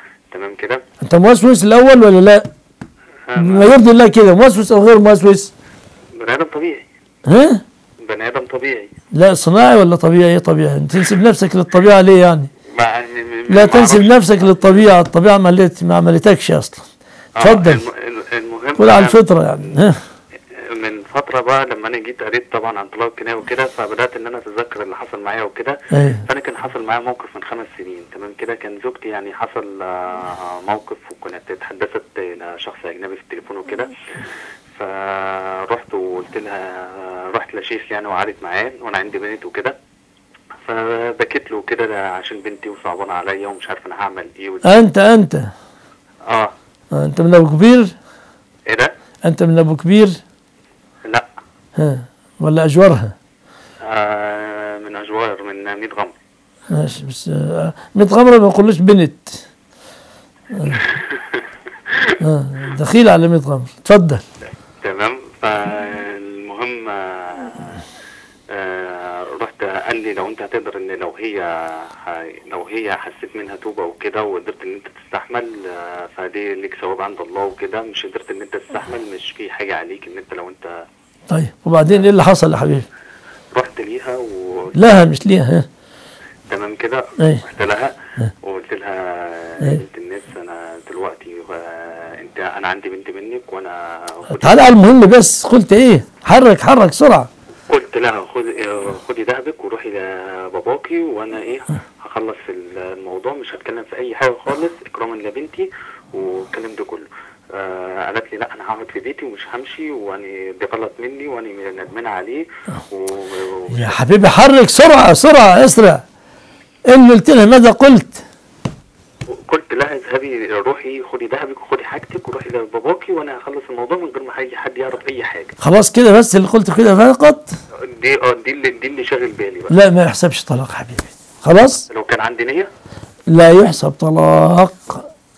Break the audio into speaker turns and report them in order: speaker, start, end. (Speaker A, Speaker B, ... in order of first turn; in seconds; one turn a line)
Speaker A: 0.3-0.8
Speaker B: 1.0-2.5
Speaker A: 3.3-3.7
Speaker B: 3.4-5.5
Speaker A: 6.2-6.9
Speaker B: 7.2-7.6
Speaker A: 8.0-8.9
Speaker B: 9.1-12.5
Speaker A: 12.7-14.8
Speaker B: 13.5-16.9
Speaker A: 17.4-19.8
Speaker B: 17.4-17.8
Speaker B: 18.8-20.0
Speaker A: 20.7-39.8
Speaker B: 25.9-26.2
Speaker A: 40.6-44.7
Speaker B: 44.6-45.5
Speaker A: 46.3-46.5
Speaker B: 46.9-47.9
Speaker B: 49.2-50.2
Speaker B: 51.8-53.1
Speaker A: 53.8-56.1
Speaker B: 56.7-59.4
Speaker B: 60.5-60.8
Speaker A: 60.6-62.1
Speaker B: 62.2-64.2
Speaker A: 64.8-67.8
Speaker A: 68.5-80.8
Speaker B: 81.3-82.8
Speaker A: 83.5-84.8
Speaker B: 84.7-85.7
Speaker A: 86.5-94.8
Speaker B: 87.2-87.4
Speaker B: 94.3-97.3
Speaker A: 97.7-114.0
Speaker B: 113.7-116.0
Speaker B: 116.9-118.2
Speaker A: 119.3-125.5
Speaker B: 125.6-127.5
Speaker A: 127.8-129.7
Speaker B: 129.7-131.8
Speaker A: 131.9-132.7
Speaker B: 133.3-135.0